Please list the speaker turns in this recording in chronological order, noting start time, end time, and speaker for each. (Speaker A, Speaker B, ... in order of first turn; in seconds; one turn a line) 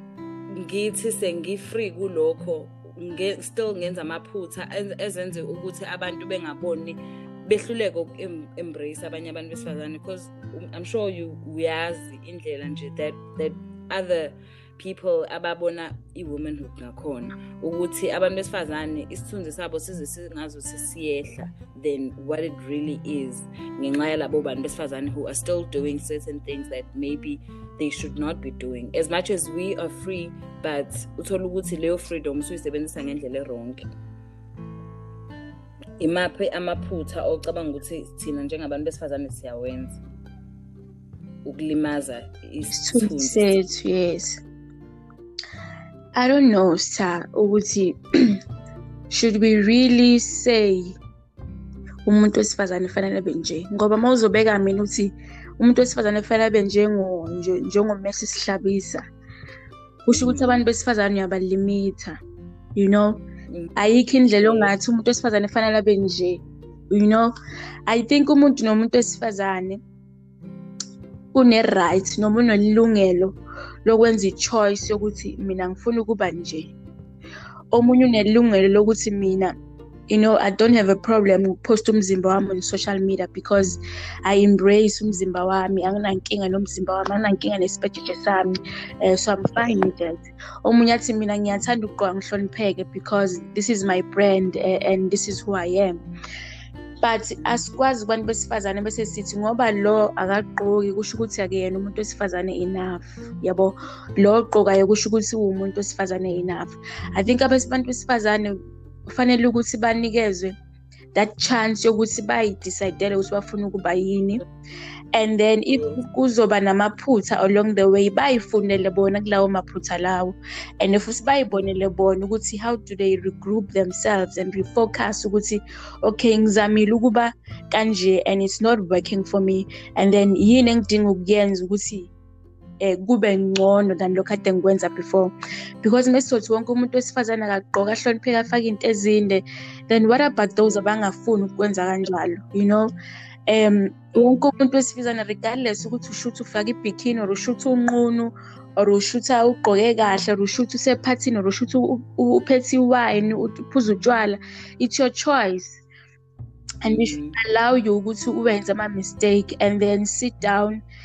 Speaker A: 0.6-33.8
Speaker A: 36.0-40.0
Speaker A: 41.5-43.5
Speaker B: 42.6-44.4
Speaker B: 46.1-48.3
Speaker B: 49.1-51.0
Speaker B: 52.0-59.0
Speaker B: 60.0-62.2
Speaker A: 60.1-60.6
Speaker B: 62.8-63.2
Speaker B: 63.8-67.3
Speaker A: 64.4-64.7
Speaker B: 67.9-69.8
Speaker B: 71.3-76.7
Speaker B: 77.7-79.5
Speaker B: 80.1-96.0
Speaker B: 97.0-108.5
Speaker B: 109.1-110.5
Speaker B: 111.2-114.4
Speaker B: 115.1-132.1
Speaker A: 115.7-116.0
Speaker B: 132.8-142.9
Speaker B: 143.5-155.8
Speaker B: 156.8-160.8
Speaker A: 156.9-157.4